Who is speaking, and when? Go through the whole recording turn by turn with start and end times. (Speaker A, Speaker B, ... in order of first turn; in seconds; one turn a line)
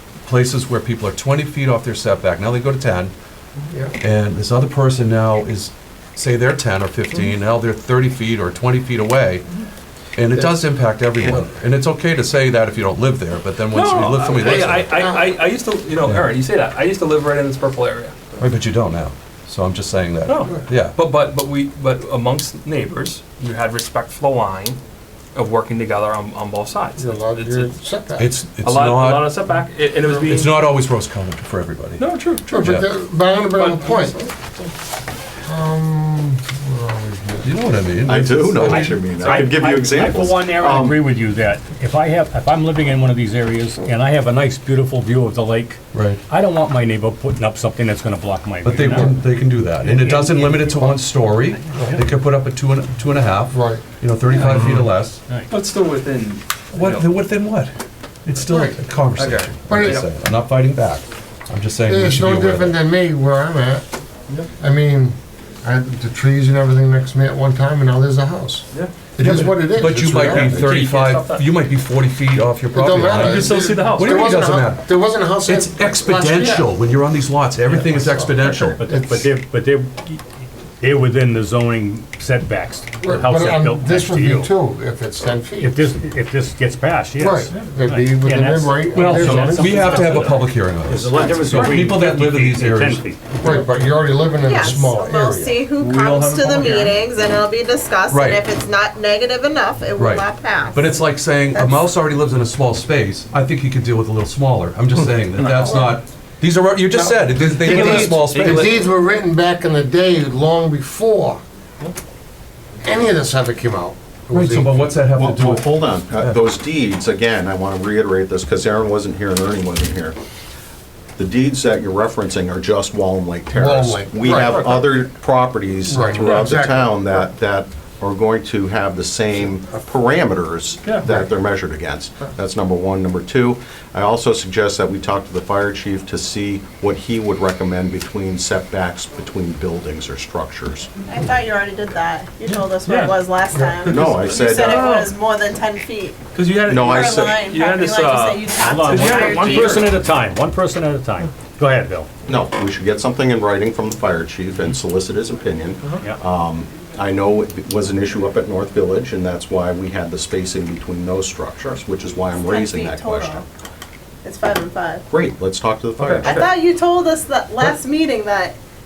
Speaker A: 0.2-3.1
Speaker A: 4.0-9.4
Speaker A: 10.2-15.0
Speaker B: 13.7-18.4
Speaker C: 14.3-15.4
Speaker A: 16.0-16.4
Speaker A: 18.4-21.0
Speaker B: 20.3-24.8
Speaker B: 25.4-27.7
Speaker C: 27.0-28.3
Speaker A: 28.2-29.6
Speaker B: 28.6-30.6
Speaker A: 30.2-32.1
Speaker B: 32.0-32.5
Speaker C: 32.5-34.2
Speaker A: 32.6-32.9
Speaker B: 33.5-34.3
Speaker C: 35.5-37.6
Speaker A: 37.4-39.2
Speaker D: 38.0-41.1
Speaker E: 38.6-49.2
Speaker A: 45.9-46.2
Speaker A: 48.6-55.2
Speaker E: 49.8-50.6
Speaker C: 50.7-51.0
Speaker C: 53.5-53.8
Speaker B: 54.3-54.9
Speaker B: 55.5-57.1
Speaker A: 56.7-57.7
Speaker A: 58.3-62.8
Speaker C: 58.5-58.8
Speaker B: 59.1-60.1
Speaker C: 59.7-60.0
Speaker C: 61.9-63.8
Speaker C: 64.6-68.7
Speaker C: 69.2-70.8
Speaker A: 69.2-78.8
Speaker B: 70.1-71.5
Speaker C: 72.7-76.7
Speaker B: 73.1-74.3
Speaker C: 77.8-79.3
Speaker E: 78.8-80.2
Speaker E: 80.8-84.5
Speaker C: 83.0-85.9
Speaker E: 85.6-93.3
Speaker C: 87.2-90.3
Speaker A: 88.9-93.0
Speaker F: 91.5-91.8
Speaker C: 93.4-95.6
Speaker F: 94.4-101.0
Speaker B: 95.8-97.0
Speaker A: 98.1-98.4
Speaker A: 100.0-108.8
Speaker F: 101.5-101.9
Speaker B: 105.3-105.8
Speaker C: 105.5-106.0
Speaker C: 106.9-111.4
Speaker B: 107.5-109.0
Speaker C: 112.8-114.9
Speaker A: 114.3-116.4
Speaker D: 115.1-120.2
Speaker D: 121.2-140.9
Speaker C: 123.5-124.7
Speaker B: 124.3-124.9
Speaker C: 125.9-127.3
Speaker B: 126.1-126.5
Speaker F: 141.0-146.2
Speaker B: 142.8-143.2
Speaker D: 143.8-144.9
Speaker B: 143.8-145.1
Speaker B: 146.3-149.9
Speaker D: 146.7-147.1
Speaker F: 146.8-150.0
Speaker E: 148.6-152.1
Speaker D: 152.3-163.4
Speaker F: 162.4-163.4
Speaker F: 164.2-165.0
Speaker D: 165.1-166.5
Speaker B: 166.0-166.6
Speaker F: 166.2-168.6